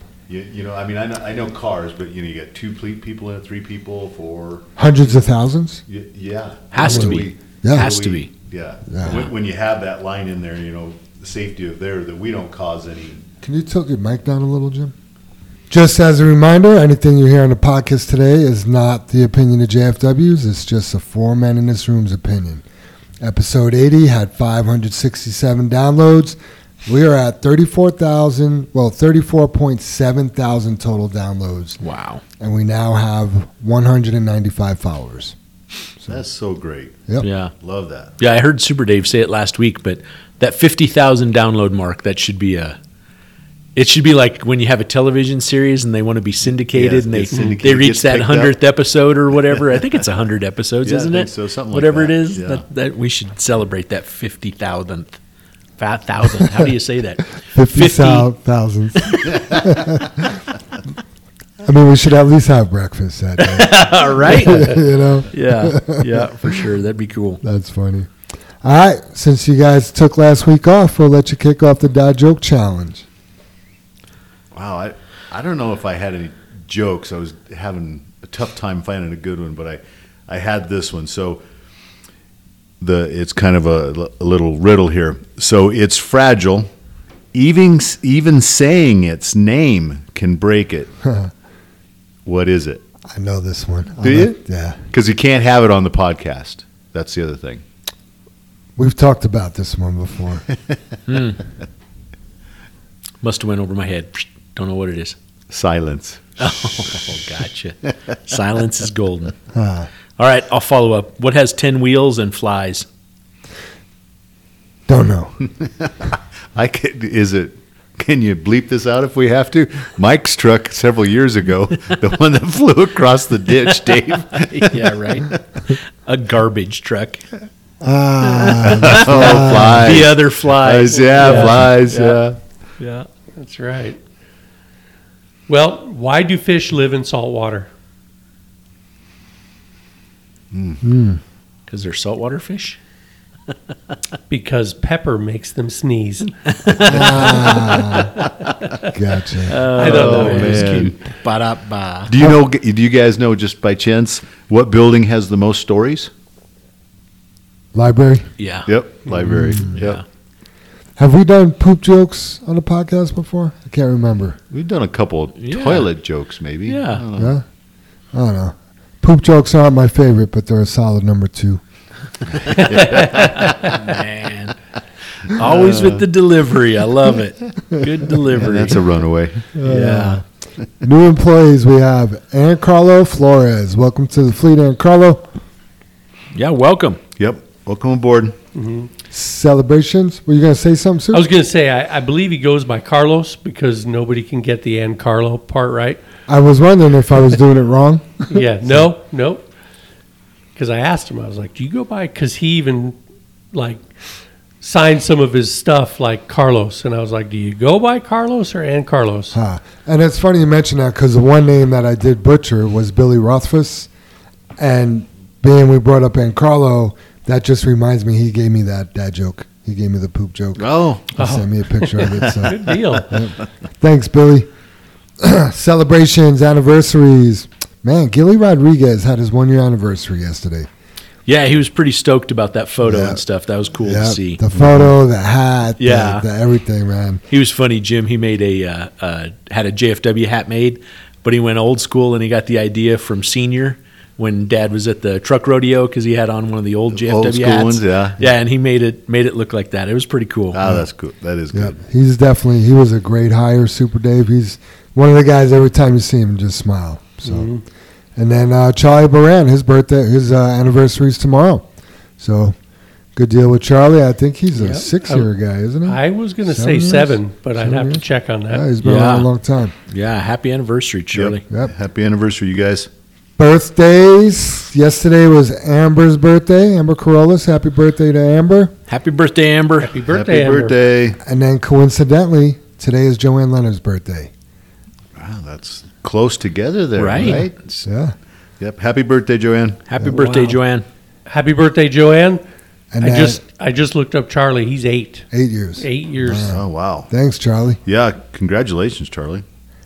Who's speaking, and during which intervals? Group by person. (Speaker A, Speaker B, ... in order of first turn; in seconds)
Speaker A: 0.3-4.8, 5.9-13.2, 36.1-37.0, 37.6-38.1, 46.7-48.5, 50.8-52.6, 59.3-59.7, 74.5-81.4, 82.8-86.7, 87.3-90.9, 92.2-92.8, 94.0-94.3, 94.9-97.6, 105.5-107.0, 115.4-125.4, 128.6-132.3, 140.5-140.8, 149.7-150.9, 152.1-156.1, 158.7-160.0, 164.5-167.3, 172.4-173.8, 175.3-176.0, 178.4-179.5, 187.2-188.3, 220.6-221.2, 222.1-222.5, 234.5-234.9, 246.9-248.2, 250.5-251.8, 271.1-272.9, 280.1-281.2, 285.1-287.8, 288.6-289.8, 296.5-297.1, 297.9-299.4
Speaker B: 4.8-5.8, 6.8-7.9, 8.9-9.2, 13.4-14.9, 15.7-22.6, 23.2-31.8, 32.4-35.4, 57.5-60.2, 61.6-66.3, 67.4-68.1, 68.6-73.0, 91.0-91.3, 93.1-94.8, 98.8-100.5, 109.5-109.9, 114.9-115.3, 127.8-129.9, 140.8-141.2, 146.8-148.1, 148.9-149.6, 157.7-158.3, 159.2-159.8, 161.0-164.4, 167.2-167.4, 168.1-171.6, 179.5-180.2, 180.8-185.3, 189.1-191.3, 196.3-198.4, 209.3-213.9, 214.6-224.5, 225.2-230.7, 232.8-233.2, 233.8-237.2, 251.5-257.5, 258.1-261.6, 262.2-262.6, 263.1-269.7, 273.4-278.7, 281.2-284.3, 287.2-288.1, 290.0-290.6, 292.9-293.4, 295.3-297.8
Speaker C: 6.7-8.3, 31.8-32.2, 37.2-37.5, 38.2-42.8, 43.8-55.2, 55.8-58.3, 63.4-64.8, 65.3-67.4, 101.1-101.4, 103.2-105.2, 106.4-109.3, 110.2-112.9, 124.3-127.2, 128.3-132.2, 132.8-133.1, 141.7-142.8, 146.5-147.7, 149.4-152.1, 158.4-158.7, 159.7-160.0, 165.4-165.9, 166.7-167.0, 173.5-174.6, 175.3-178.8, 179.6-180.2, 186.3-187.0, 231.2-234.4, 235.8-236.2, 237.3-250.6, 268.8-269.3, 269.9-271.4, 278.9-279.9, 287.0-287.5, 289.9-290.9
Speaker D: 130.9-131.5, 133.3-134.0, 135.5-137.7, 144.3-148.1, 149.8-150.9, 172.6-173.7, 188.5-188.9, 191.1-196.0, 198.3-199.4, 200.6-203.0, 203.5-203.9, 204.6-209.4, 221.2-223.2, 257.2-257.6, 264.6-265.3, 265.9-268.6, 279.8-280.8, 291.3-292.4, 293.0-295.2, 295.8-296.5